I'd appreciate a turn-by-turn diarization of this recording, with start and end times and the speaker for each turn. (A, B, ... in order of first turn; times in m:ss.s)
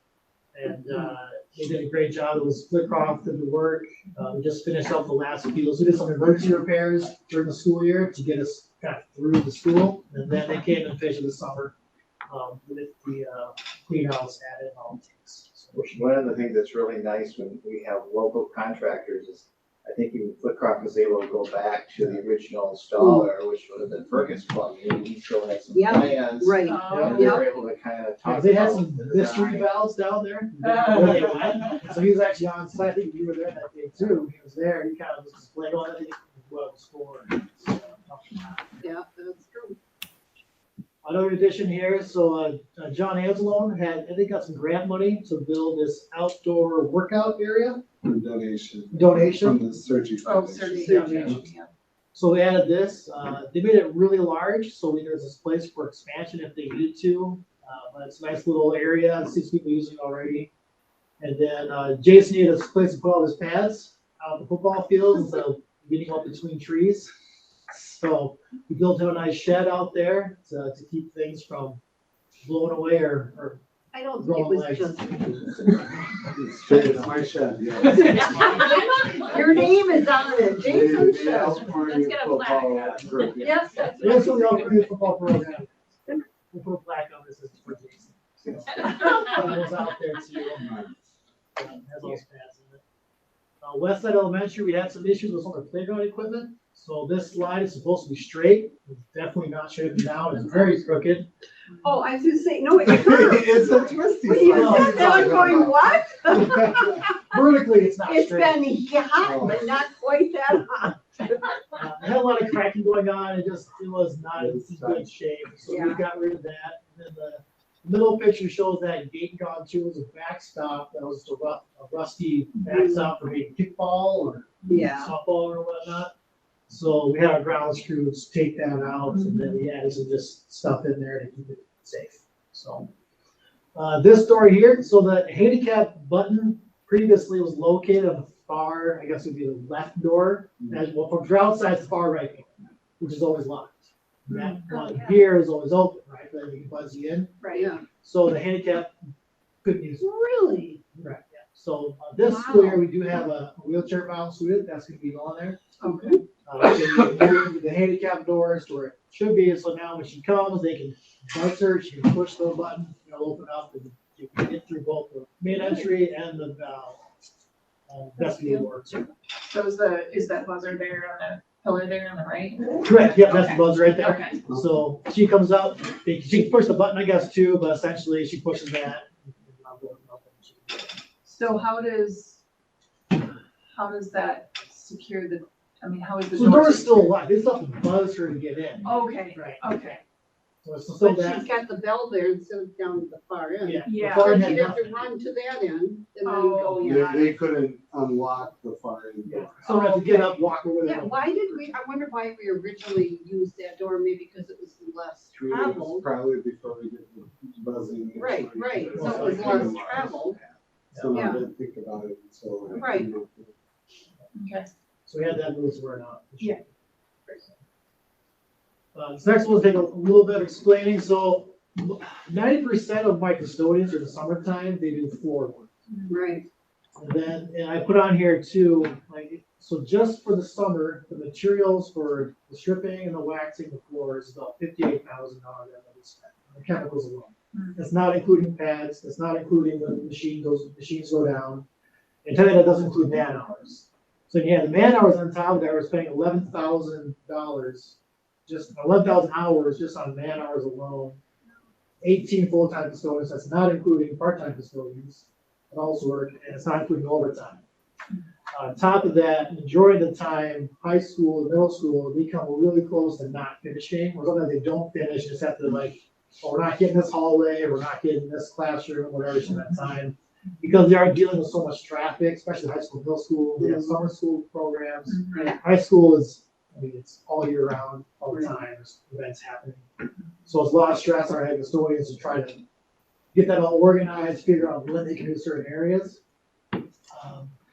0:00.5-0:11.7 A
0:12.3-0:16.0 A
0:15.8-0:29.7 B
0:23.0-0:23.3 C
0:25.7-0:27.5 C
0:26.6-0:27.5 D
0:26.9-0:27.2 A
0:28.2-0:38.9 A
0:38.8-0:39.8 C
0:41.0-0:47.8 A
0:48.0-0:51.3 E
0:48.9-0:49.6 A
0:50.2-0:51.7 D
0:50.8-0:51.4 A
0:52.1-1:00.5 A
1:01.2-1:07.1 A
1:07.7-1:11.8 A
1:12.4-1:13.6 A
1:13.9-1:15.7 C
1:14.2-1:15.0 A
1:16.4-1:18.6 E
1:17.9-1:19.5 D
1:18.0-1:21.7 C
1:18.0-1:19.0 A
1:20.6-1:22.2 E
1:21.6-1:24.9 D
1:21.8-1:23.6 B
1:22.8-1:23.5 E
1:23.4-1:24.7 C
1:24.0-1:25.8 A
1:26.5-1:30.7 A
1:30.6-1:30.9 E
1:31.6-1:32.8 A
1:33.6-1:41.3 A
1:41.8-1:47.3 C
1:42.8-1:46.0 E
1:44.5-1:45.5 A
1:47.1-1:48.6 A
1:48.0-1:51.0 C
1:49.2-1:49.6 E
1:51.7-2:06.1 A
1:54.3-1:55.1 E
1:55.6-1:56.0 C
2:02.7-2:03.1 C
2:04.7-2:05.1 C
2:06.7-2:12.9 A
2:09.1-2:09.6 D
2:13.7-2:27.4 A
2:24.3-2:24.8 D
2:24.7-2:25.2 C
2:27.4-2:27.8 C
2:28.0-2:28.9 A
2:29.6-2:30.1 A
2:30.0-2:30.8 C
2:30.9-2:35.6 A
2:32.2-2:32.8 C
2:35.8-2:36.2 C
2:36.4-2:47.0 A
2:47.9-2:49.1 A
2:48.2-2:48.6 C
2:49.4-2:54.4 D
2:52.8-3:01.0 A
3:01.2-3:02.4 D
3:03.7-3:07.1 D
3:06.3-3:09.9 A
3:08.8-3:10.0 D
3:10.6-3:11.5 A
3:11.0-3:17.3 C
3:13.6-3:15.0 A
3:13.8-3:14.7 D
3:16.2-3:16.9 D
3:16.8-3:19.6 E
3:19.2-3:21.7 A
3:19.6-3:26.0 C
3:25.3-3:33.5 E
3:28.2-3:30.4 C
3:28.9-3:29.8 A
3:30.9-3:31.3 A
3:31.1-3:31.4 C
3:32.7-3:33.1 C
3:34.3-3:34.7 D
3:35.1-3:36.6 A
3:38.9-3:45.7 A
3:45.9-3:46.2 D
3:46.1-3:46.4 C
3:47.0-4:01.6 A
3:57.5-3:57.8 D
4:02.2-4:11.2 A
4:12.0-4:17.6 A
4:18.5-4:39.9 A
4:33.6-4:34.0 C
4:35.1-4:35.5 D
4:40.4-4:42.6 A
4:43.3-4:46.2 A
4:47.1-4:47.6 A